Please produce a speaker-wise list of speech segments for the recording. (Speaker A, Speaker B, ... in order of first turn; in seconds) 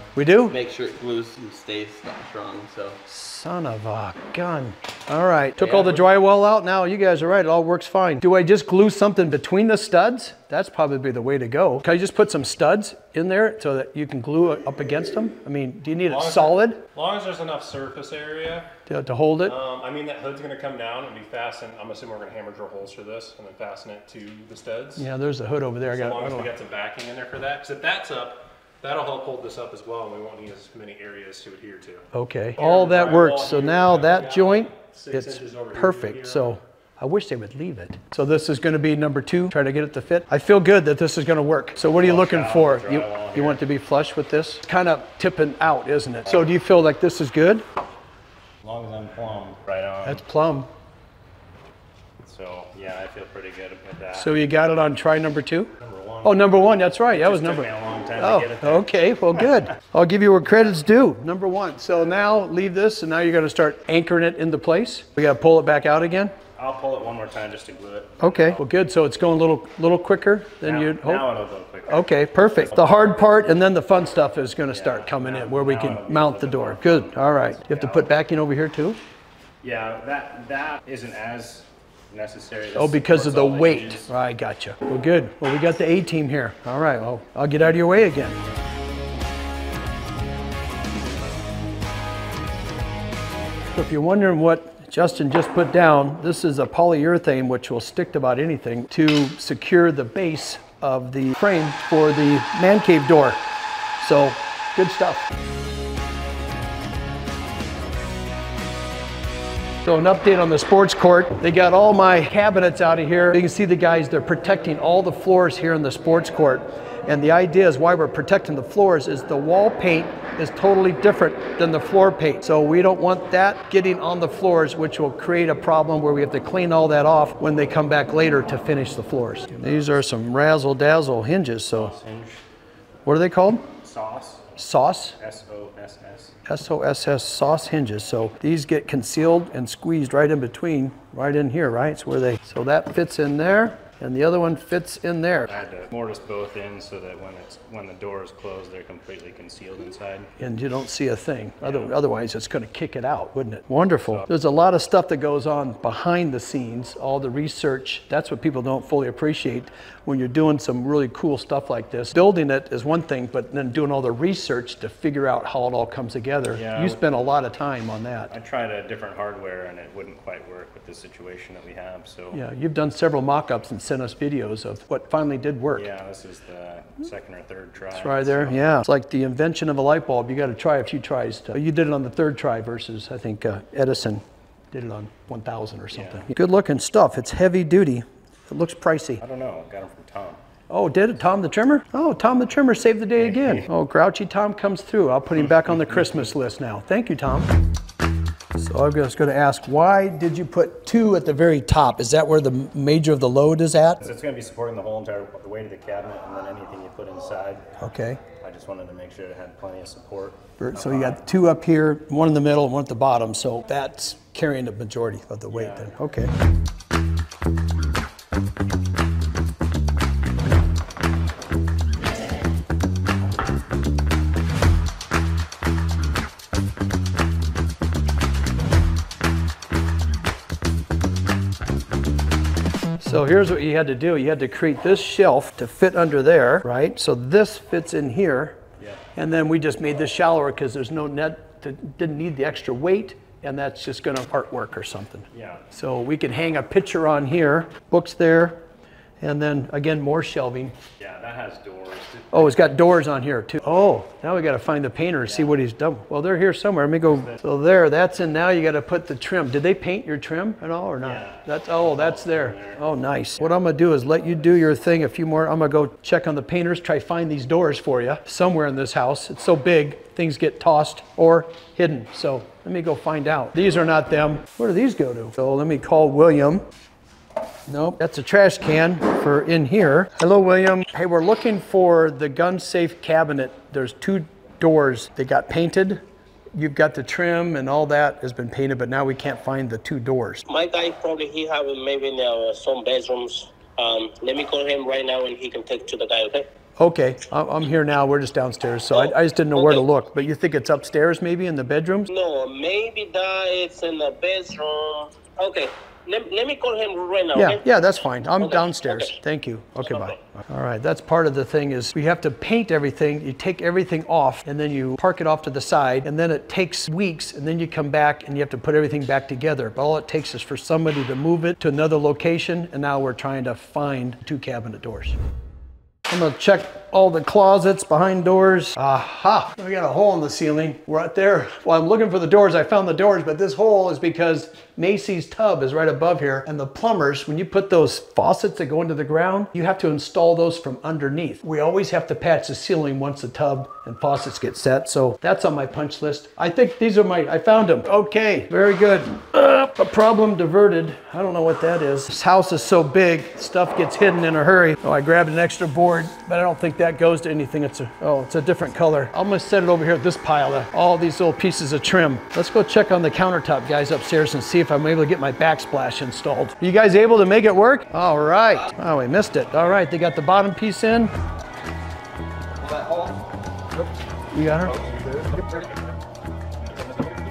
Speaker A: 0.1-0.5, 3.1-16.8, 18.9-19.6, 24.9-26.5, 32.1-47.6, 50.0-50.7, 54.1-55.7, 56.2-66.3, 68.2-79.0, 82.7-88.4, 93.7-103.4, 104.0-105.3, 109.8-131.9, 133.1-133.7, 134.6-135.2, 136.4-145.6, 150.4-168.3, 172.3-175.9, 177.9-189.2, 190.7-197.5, 198.6-204.0, 207.8-208.2, 210.6-216.3, 233.0-238.6, 239.1-248.6, 249.2-250.8, 252.3-276.6, 277.7-286.0, 286.6-290.4, 296.8-302.1, 307.3-325.1, 326.1-371.1, 374.3-374.8
Speaker B: 0.5-3.0, 5.6-6.0
Speaker C: 16.1-18.7, 19.4-25.0, 25.9-32.1, 32.6-36.6, 41.9-43.6, 48.6-50.2, 52.2-54.4, 55.8-58.9, 66.6-68.6, 70.6-73.4, 74.7-78.1, 79.6-84.1, 131.7-132.4, 133.8-134.5, 135.2-136.3, 145.4-150.3, 151.6-151.9, 166.5-167.2, 168.3-172.4, 175.7-178.8, 185.9-186.2, 189.2-190.4, 193.2-193.7, 195.4-196.3, 204.0-207.7, 208.4-211.2, 215.5-215.9, 245.3-245.6, 251.0-252.9, 255.2-255.6, 257.1-257.4, 261.0-263.6, 374.8-375.2
Speaker D: 290.5-296.5, 298.9-299.8, 302.1-307.6, 308.4-309.1, 309.8-310.2